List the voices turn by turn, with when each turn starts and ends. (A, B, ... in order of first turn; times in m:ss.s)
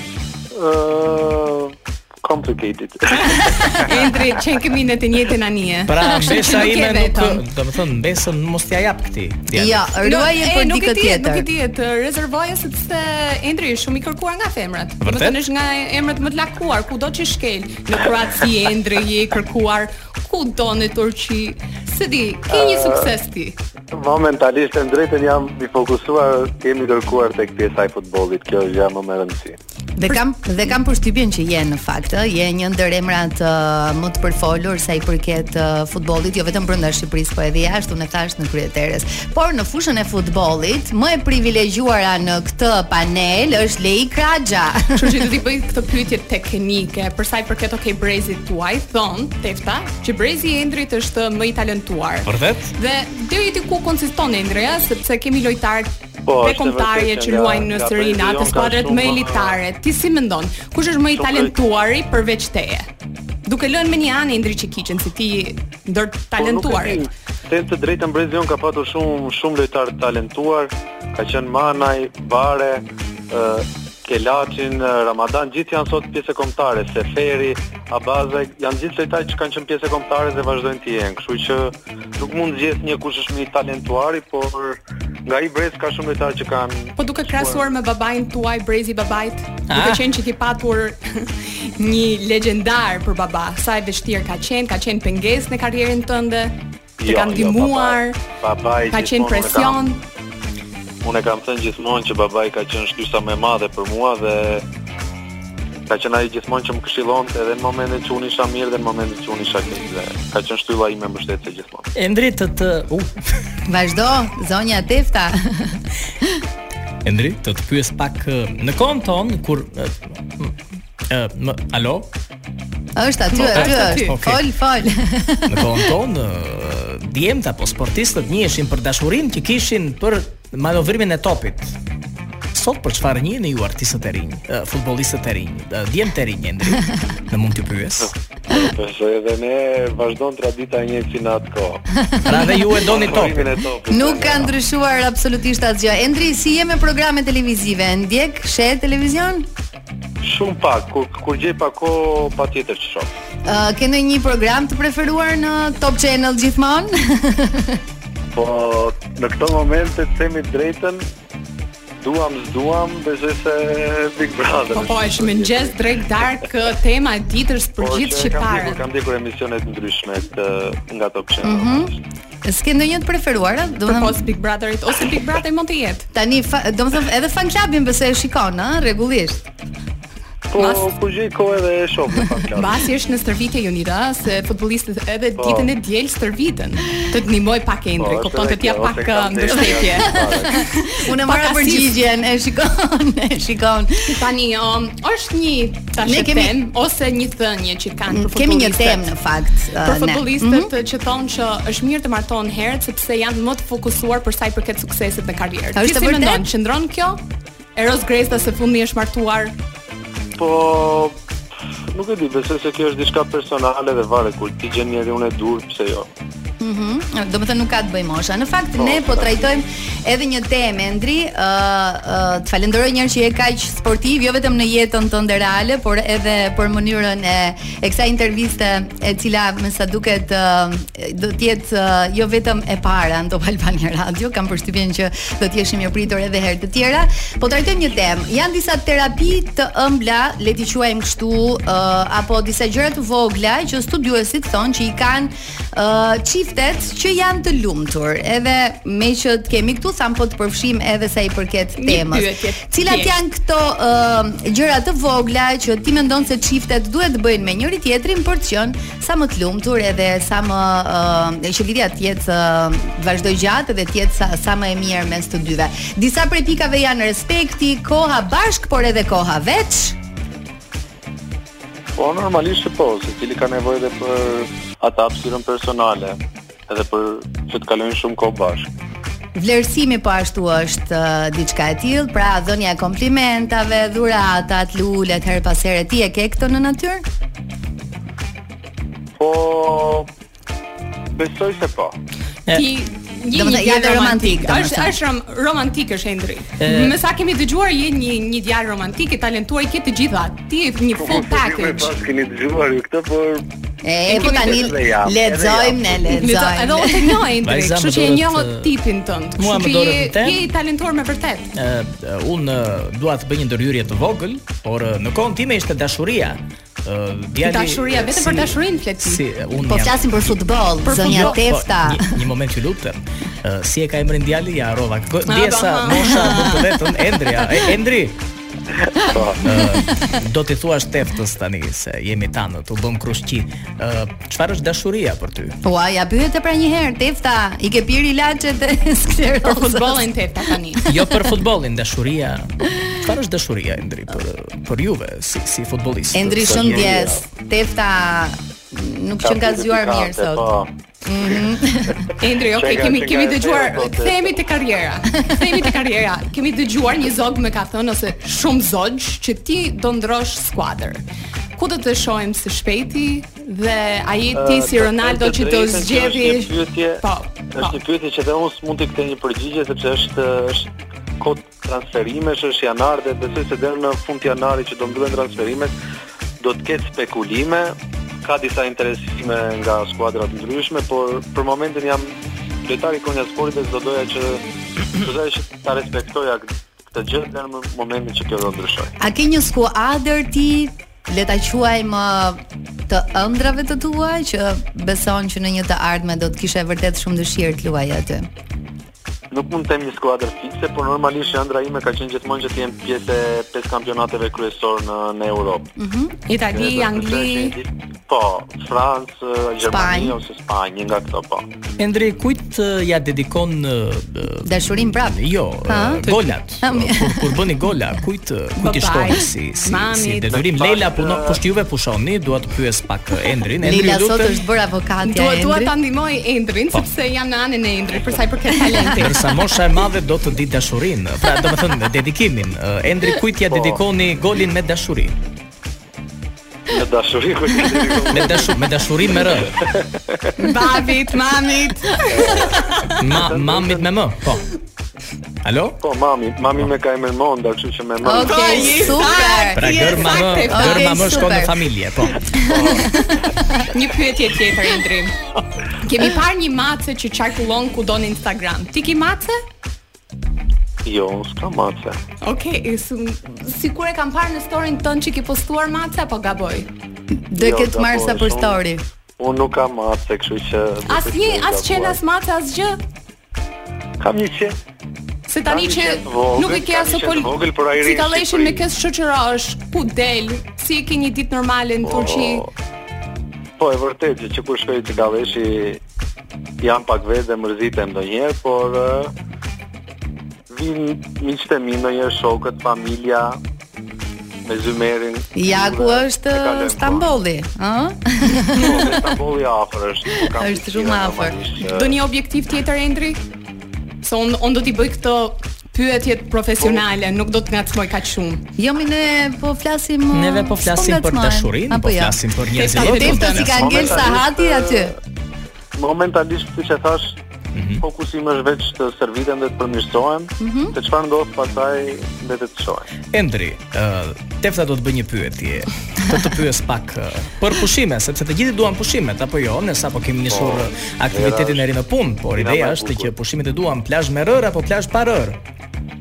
0:00.5-0:03.9 A
0:03.4-0:07.4 B
0:05.9-0:09.8 C
0:09.5-0:11.5 D
0:10.0-0:23.6 B
0:15.0-0:15.4 C
0:22.5-0:23.1 A
0:23.9-0:29.6 A
0:30.0-0:45.1 D
0:44.9-1:02.9 B
0:52.3-0:52.7 C
0:56.3-0:59.6 A
1:01.1-1:01.5 A
1:03.4-1:07.0 B
1:06.4-1:27.6 A
1:27.0-1:38.2 B
1:29.7-1:30.0 C
1:37.0-1:39.9 A
1:38.9-1:40.0 B
1:41.0-1:44.6 A
1:45.9-1:51.9 A
1:52.0-1:53.2 C
1:53.7-1:55.8 D
1:57.0-2:02.1 C
2:03.0-2:05.9 D
2:03.3-2:04.1 B
2:03.4-2:04.4 C
2:05.5-2:11.8 C
2:12.5-2:18.1 C
2:18.5-2:21.8 A
2:22.1-2:22.7 D
2:22.2-2:23.5 C
2:22.9-2:24.5 A
2:23.9-2:29.5 D
2:30.2-2:33.1 A
2:33.4-2:37.8 D
2:38.4-2:41.1 A
2:42.0-2:45.8 A
2:44.7-2:48.8 B
2:47.8-2:52.0 A
2:51.4-2:51.9 D
2:52.4-2:54.3 D
2:53.9-2:56.1 B
2:56.1-2:59.5 D
3:00.5-3:02.8 A
3:00.6-3:00.9 B
3:02.6-3:11.9 B
3:05.4-3:05.7 A
3:08.0-3:10.6 A
3:09.9-3:14.2 D
3:14.1-3:19.1 B
3:16.0-3:16.6 D
3:18.1-3:20.7 D
3:19.8-3:27.2 B
3:25.8-3:26.5 D
3:27.8-3:29.5 B
3:30.4-3:31.2 A
3:31.9-3:36.1 A
3:36.6-4:30.0 D
3:38.8-3:39.3 A
4:11.8-4:13.2 B
4:32.0-4:36.2 A
4:36.7-4:38.7 A
4:39.4-4:47.0 D
4:49.2-4:50.1 A
4:51.1-4:52.0 A
4:52.5-5:01.9 B
4:53.3-4:55.0 D
4:56.6-4:57.0 C
5:01.0-5:03.4 A
5:03.8-5:07.3 D
5:04.1-5:06.2 A
5:04.1-5:04.7 B
5:06.1-5:11.5 B
5:07.4-5:08.8 C
5:09.4-5:10.4 C
5:11.6-5:28.2 C
5:17.4-5:19.2 B
5:19.6-5:22.2 D
5:20.8-5:21.4 B
5:25.3-5:26.7 B
5:28.9-5:29.4 A
5:29.4-5:35.6 C
5:35.6-5:40.1 D
5:39.4-5:40.8 B
5:40.7-5:41.3 D
5:40.9-5:47.0 C
5:46.1-5:50.5 D
5:46.4-5:47.2 A
5:49.2-5:50.7 A
5:51.0-5:52.0 D
5:52.2-6:01.0 B
5:52.5-5:54.4 A
6:01.6-6:07.8 B
6:04.3-6:07.0 A
6:07.5-6:10.7 A
6:11.2-6:15.7 A
6:16.4-6:22.1 A
6:22.6-6:28.9 A
6:29.0-6:38.3 D
6:39.3-6:45.7 A
6:45.8-6:46.1 D
6:46.3-6:47.5 B
6:46.5-6:51.5 A
6:49.6-6:50.2 D
6:51.8-6:54.5 C
6:54.4-6:57.4 D
6:55.1-7:04.4 C
6:58.6-7:00.3 B
7:00.3-7:01.4 A
7:03.6-7:05.8 D
7:05.0-7:09.3 B
7:09.0-7:15.2 C
7:13.5-7:13.8 A
7:16.7-7:18.6 A
7:18.1-7:19.6 C
7:19.4-7:20.3 A
7:20.4-7:23.0 B
7:22.1-7:23.9 A
7:23.0-7:24.4 C
7:25.4-7:25.8 C
7:25.8-7:29.0 A
7:28.0-7:31.6 D
7:28.1-7:31.2 B
7:29.6-7:32.2 C
7:32.3-7:33.7 D
7:32.5-7:32.9 A
7:33.7-7:35.2 B
7:35.8-7:39.4 B
7:40.8-7:42.0 A
7:42.2-7:46.7 B
7:47.3-7:48.8 D
7:47.4-7:48.6 A
7:49.2-7:52.0 A
7:50.9-7:52.8 B
7:54.0-7:54.6 A
7:55.3-7:57.3 B
7:55.5-7:58.6 A
7:57.8-8:02.5 B
8:01.8-8:02.5 A
8:03.6-8:05.8 A
8:06.6-8:09.1 A
8:10.5-8:13.4 A
8:14.4-8:17.1 A
8:15.4-8:19.0 D
8:18.5-8:22.0 A
8:20.2-8:21.4 D
8:21.7-8:23.2 B
8:24.0-8:28.4 B
8:28.6-8:34.9 D
8:30.1-8:34.1 C
8:32.5-8:33.5 B
8:33.5-8:34.9 A
8:35.8-8:37.2 A
8:37.5-8:37.8 C
8:37.8-8:42.9 A
8:40.4-8:40.8 D
8:43.1-8:55.4 C
8:50.3-8:51.7 A
8:52.4-8:53.1 A